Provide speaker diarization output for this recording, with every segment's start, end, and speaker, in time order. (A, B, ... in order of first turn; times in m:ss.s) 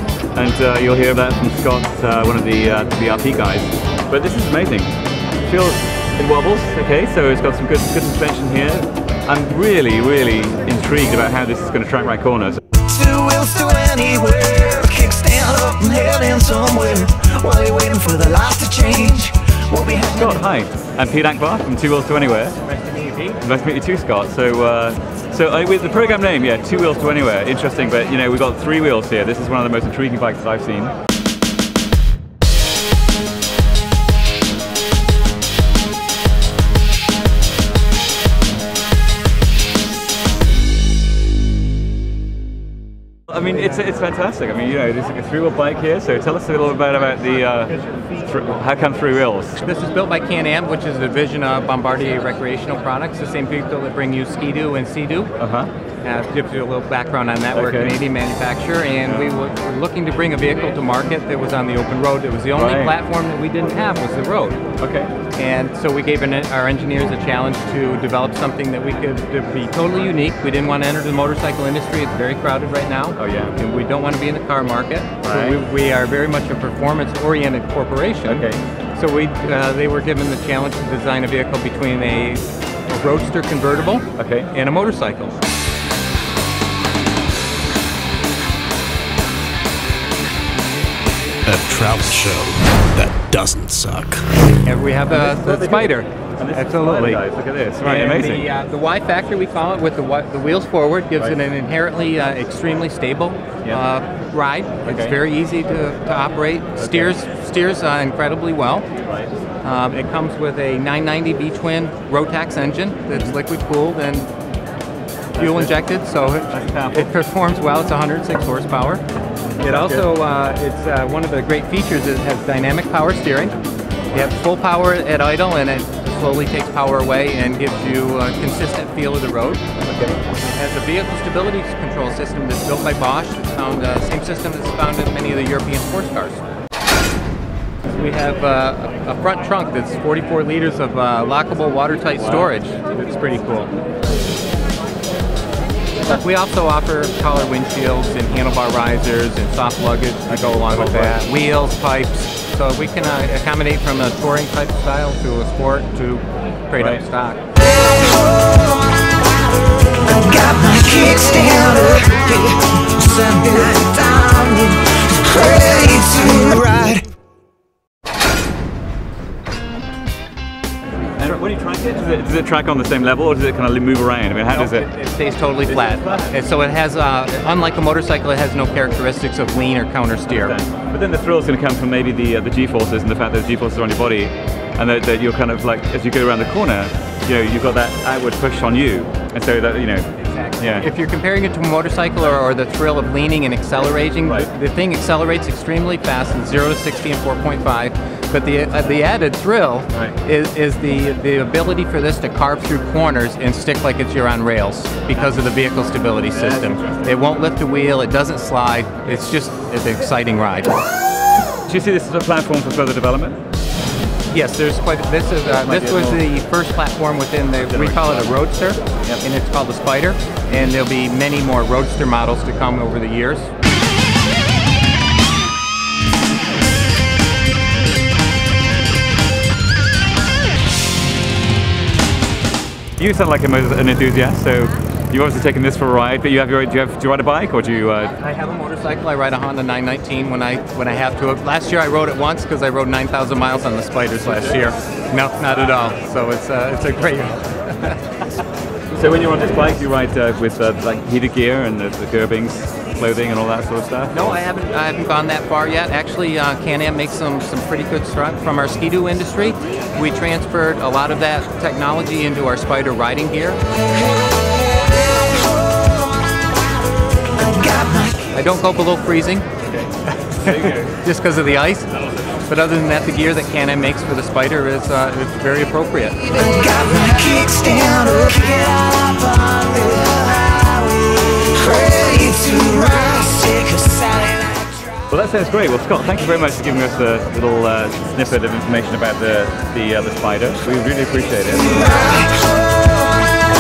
0:00.4-0:12.6 A
0:12.9-0:20.2 B
0:20.1-0:22.6 A
0:22.7-0:23.4 C
0:23.4-0:30.9 A
0:43.3-0:49.6 A
0:49.6-0:55.3 C
0:55.4-0:55.7 A
0:56.0-1:04.6 C
0:57.5-0:58.0 A
1:02.5-1:03.0 A
1:04.8-1:05.1 A
1:05.4-1:25.4 C
1:13.2-1:13.6 A
1:15.2-1:15.6 A
1:18.2-1:18.6 A
1:24.2-1:24.5 A
1:31.4-1:34.3 D
1:34.6-1:37.2 C
1:35.1-1:38.5 A
1:37.8-1:48.9 C
1:44.8-1:45.1 A
1:46.8-1:47.1 A
1:49.6-1:54.3 C
1:55.4-1:59.0 C
1:55.4-1:55.7 A
1:56.5-1:57.1 A
1:59.6-2:00.1 A
1:59.6-2:03.6 C
2:04.1-2:09.6 C
2:09.9-2:10.2 A
2:10.3-2:16.4 C
2:17.8-2:23.7 C
2:26.1-2:37.4 C
2:30.3-2:31.2 A
2:36.8-2:37.0 A
2:40.1-2:47.0 B
2:51.2-2:54.9 A
2:54.5-3:00.6 C
2:55.7-2:56.3 A
3:00.3-3:10.1 A
3:10.2-3:30.7 C
3:10.6-3:10.9 A
3:26.3-3:27.0 A
3:31.7-3:33.4 A
3:34.3-3:43.5 C
3:35.6-3:36.2 A
3:37.7-3:38.3 A
3:53.0-3:58.1 A
3:58.2-4:08.0 C
4:08.9-4:14.4 A
4:14.1-4:23.6 C
4:28.3-4:29.5 C
4:30.1-4:31.9 C
4:30.4-4:30.9 A
4:32.5-4:36.4 C
4:36.5-4:40.8 B
4:41.5-4:44.4 B
4:45.1-4:52.0 A
4:51.8-4:52.2 B